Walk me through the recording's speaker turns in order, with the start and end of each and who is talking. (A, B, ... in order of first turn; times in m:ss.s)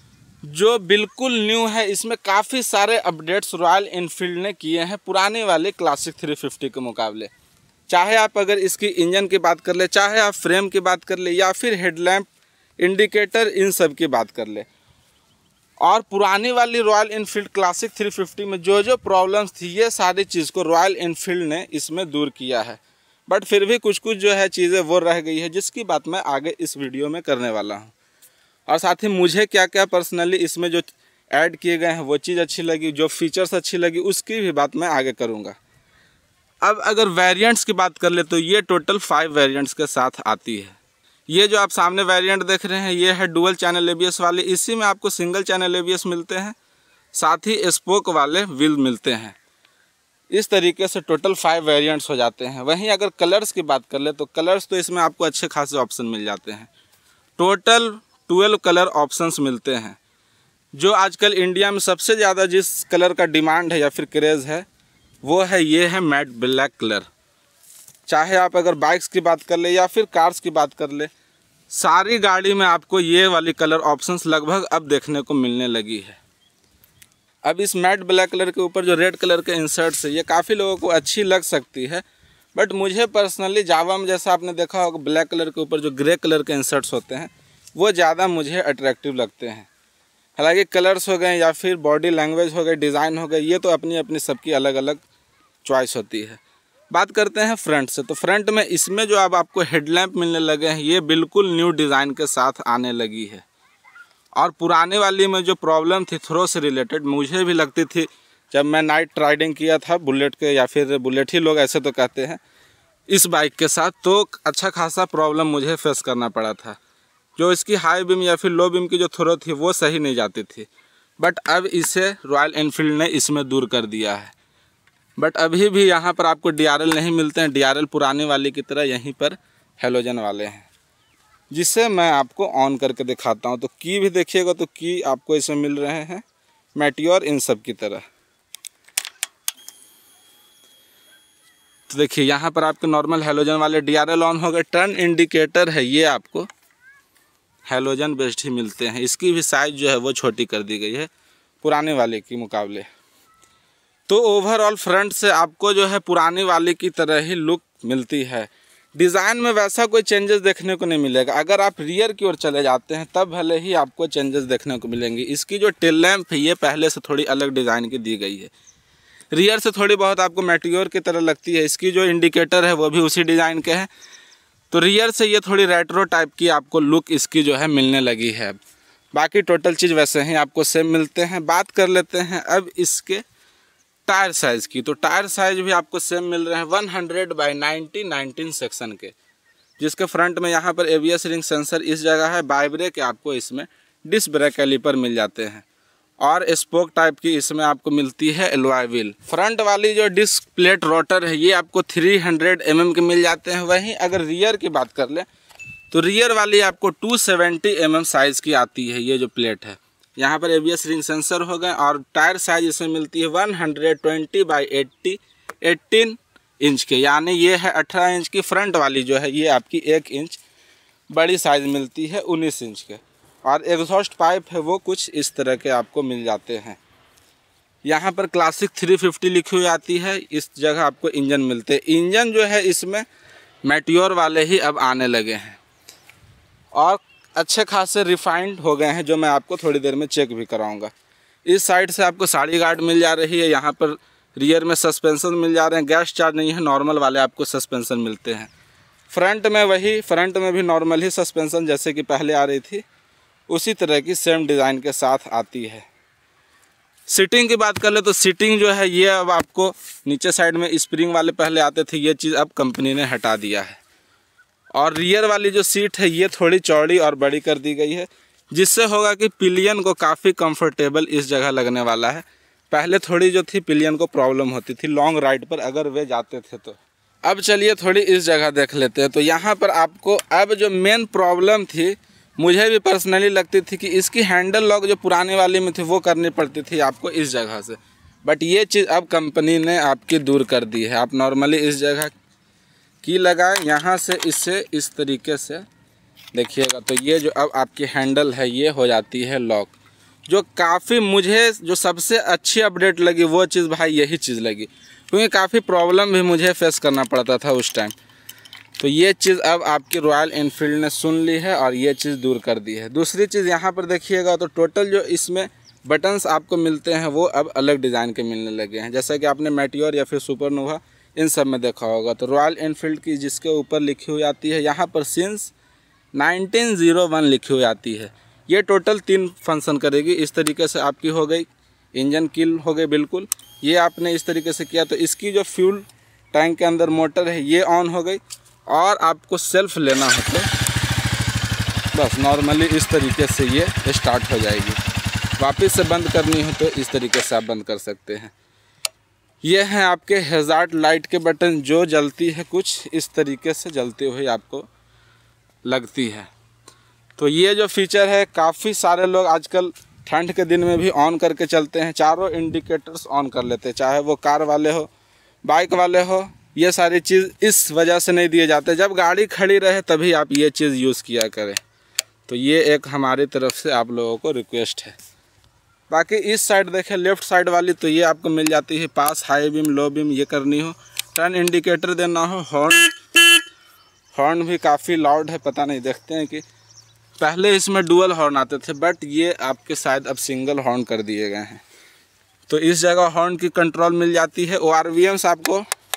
0:00.5-0:07.3 A
0:07.9-0:12.3 A
0:12.8-0:14.7 A
0:15.8-0:27.9 A
0:28.7-0:35.6 A
0:36.6-0:40.8 A
0:41.3-0:46.6 A
0:47.1-0:49.4 A
0:50.3-0:56.7 A
0:57.4-1:00.0 A
1:00.7-1:04.7 A
1:05.2-1:07.1 A
1:08.1-1:11.1 A
1:11.7-1:16.2 A
1:17.4-1:22.0 A
1:22.6-1:29.7 A
1:30.4-1:35.0 A
1:35.6-1:36.4 A
1:36.9-1:43.4 A
1:44.4-1:52.4 A
1:53.1-1:56.8 A
1:57.4-2:00.7 A
2:01.2-2:04.3 A
2:05.2-2:10.7 A
2:11.5-2:16.2 A
2:16.8-2:18.0 A
2:21.9-2:26.5 A
2:27.7-2:31.1 A
2:31.6-2:32.9 A
2:34.1-2:48.5 A
2:49.3-2:53.9 A
2:54.7-2:58.6 A
2:59.1-3:03.2 A
3:04.1-3:09.2 A
3:09.8-3:15.6 A
3:16.2-3:25.3 A
3:25.9-3:40.4 A
3:41.1-3:46.8 A
3:47.8-3:53.0 A
3:53.6-3:55.6 A
3:56.7-4:00.9 A
4:01.4-4:08.5 A
4:09.1-4:12.8 A
4:13.5-4:15.9 A
4:17.1-4:23.8 A
4:24.8-4:52.1 A
4:53.0-4:55.7 A
4:56.3-4:59.8 A
5:00.3-5:07.9 A
5:08.8-5:25.5 A
5:26.1-5:40.5 A
5:41.9-5:44.8 A
5:45.4-5:48.3 A
5:49.4-5:54.7 A
5:55.6-5:56.3 A
5:57.2-6:04.9 A
6:05.4-6:11.6 A
6:12.3-6:15.0 A
6:15.9-6:23.3 A
6:24.1-6:26.4 A
6:27.2-6:31.6 A
6:32.5-6:35.6 A